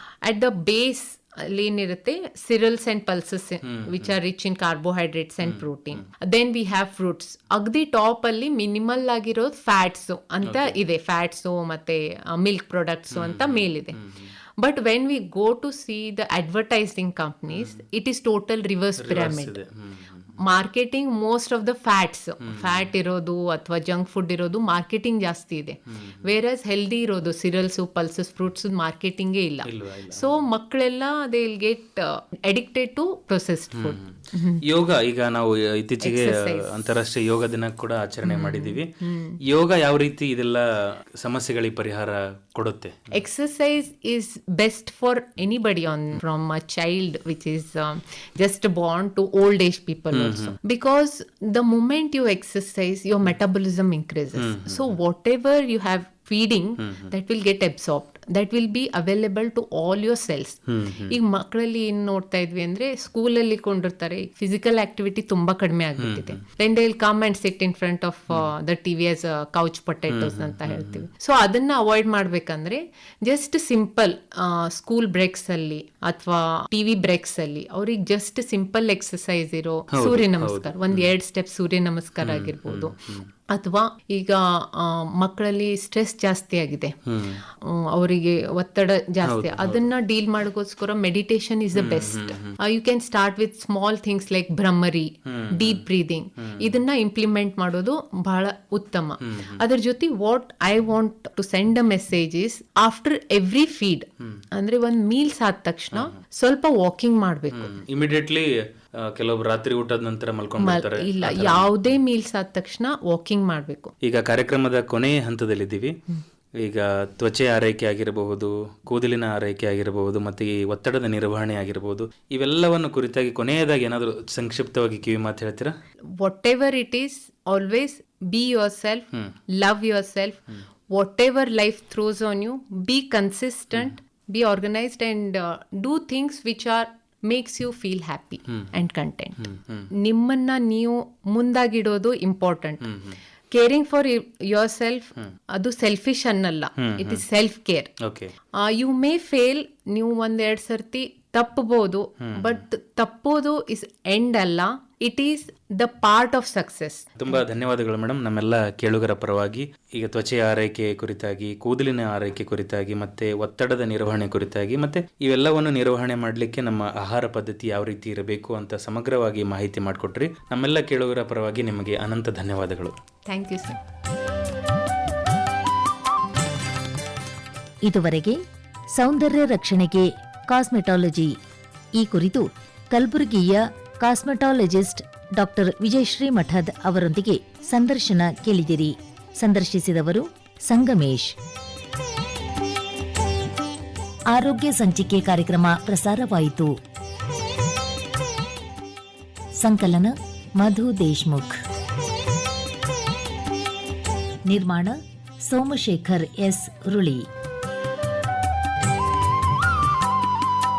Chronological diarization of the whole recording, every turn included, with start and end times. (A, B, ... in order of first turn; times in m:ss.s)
0:00.2-0:14.0 A
0:03.6-0:04.1 B
0:10.4-0:10.8 B
0:13.1-0:14.3 B
0:14.6-0:19.6 A
0:17.5-0:17.8 B
0:19.0-0:20.3 B
0:20.4-0:34.6 A
0:22.4-0:22.9 B
0:25.9-0:26.3 B
0:29.7-0:30.4 B
0:33.7-0:38.9 B
0:36.0-0:36.8 A
0:38.2-0:39.4 A
0:39.4-0:43.1 B
0:43.1-1:47.8 A
0:50.1-0:50.6 B
0:54.4-0:54.9 B
0:56.8-0:57.1 B
1:00.7-1:01.1 B
1:06.0-1:06.4 B
1:10.1-1:11.0 B
1:19.9-1:21.1 B
1:22.2-1:23.3 B
1:27.0-1:27.4 B
1:29.2-1:29.9 B
1:31.7-1:32.6 B
1:35.2-1:35.8 B
1:36.4-1:36.7 B
1:39.2-1:39.6 B
1:47.5-1:51.7 B
1:50.6-1:53.9 A
1:54.0-1:56.0 B
1:56.6-2:05.7 B
2:06.2-2:22.9 A
2:19.4-2:19.9 B
2:22.8-2:23.2 B
2:23.5-2:27.9 A
2:26.8-2:27.2 B
2:28.0-2:28.3 B
2:28.6-2:37.4 A
2:32.2-2:32.6 B
2:37.2-2:52.9 B
2:53.3-2:53.8 A
2:57.8-2:58.4 C
2:58.9-3:01.4 C
3:02.0-3:11.4 C
3:14.3-3:16.7 C
3:19.6-3:21.6 C
3:24.5-3:27.3 C